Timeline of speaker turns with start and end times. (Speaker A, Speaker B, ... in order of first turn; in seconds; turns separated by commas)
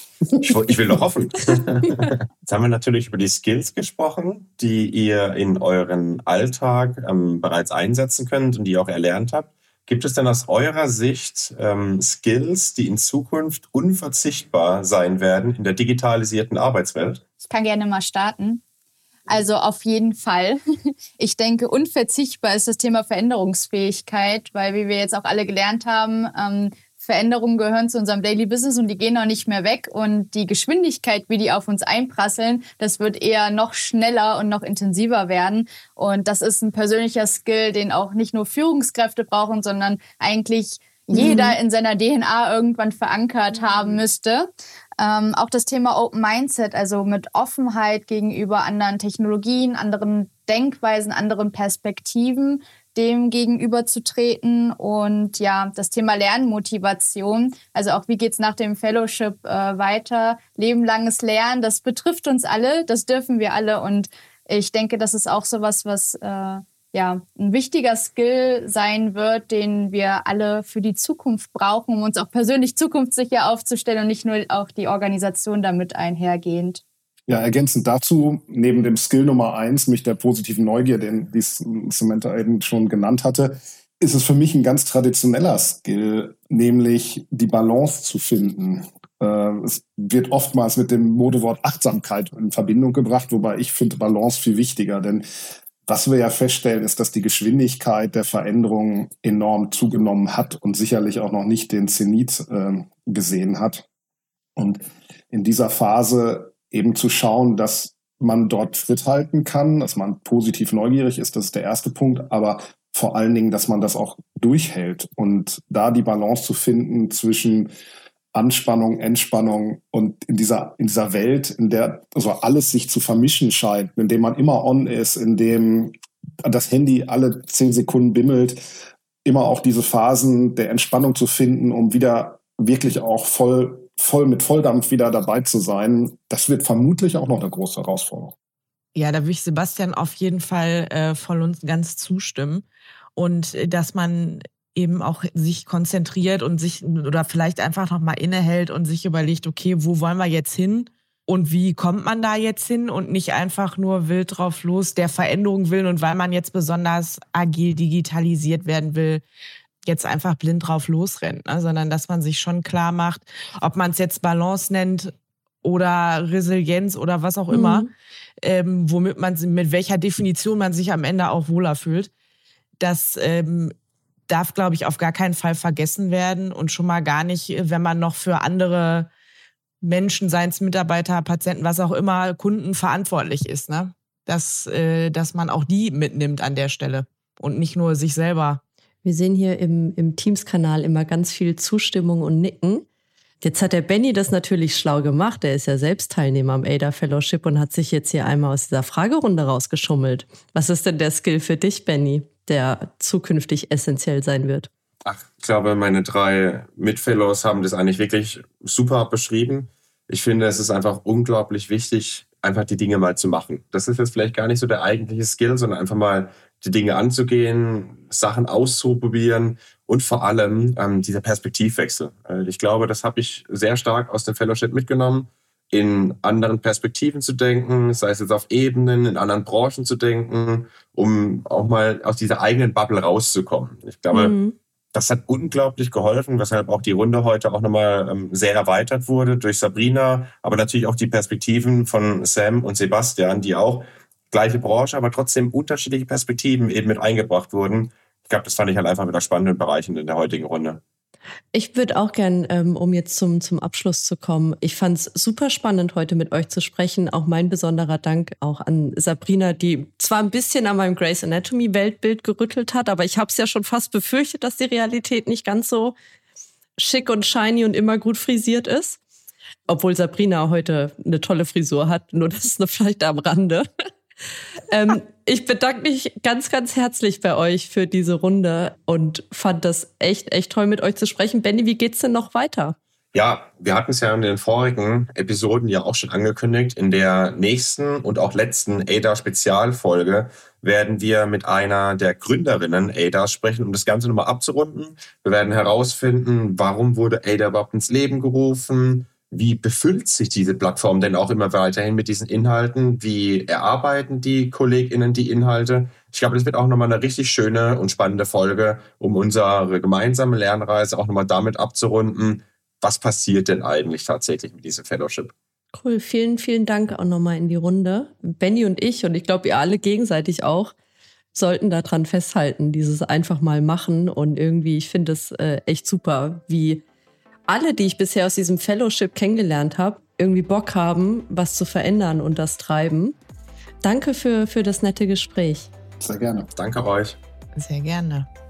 Speaker A: 0.4-17.2, Speaker B: 17.4-18.6, Speaker B: 19.3-20.6, Speaker B: 21.2-76.8, Speaker C: 41.1-41.6, Speaker D: 77.3-95.2, Speaker D: 95.9-103.8, Speaker D: 104.6-117.7, Speaker D: 118.3-128.6, Speaker D: 129.2-138.3, Speaker E: 138.9-142.7, Speaker E: 143.2-159.2, Speaker E: 159.8-167.9, Speaker C: 167.5-167.9, Speaker E: 168.4-172.1, Speaker E: 172.8-173.7, Speaker E: 174.3-179.1, Speaker E: 179.8-188.6, Speaker C: 189.0-192.9, Speaker C: 193.4-204.7, Speaker A: 205.1-234.4, Speaker C: 234.1-234.6, Speaker A: 234.9-250.8, Speaker C: 251.5-266.0, Speaker C: 266.8-269.0, Speaker C: 269.7-273.7, Speaker C: 274.7-282.8, Speaker A: 283.1-315.3, Speaker C: 315.7-320.7, Speaker C: 321.3-326.8, Speaker C: 327.5-333.2, Speaker C: 333.8-335.7, Speaker D: 336.0-336.5, Speaker A: 336.6-337.2, Speaker E: 337.6-338.3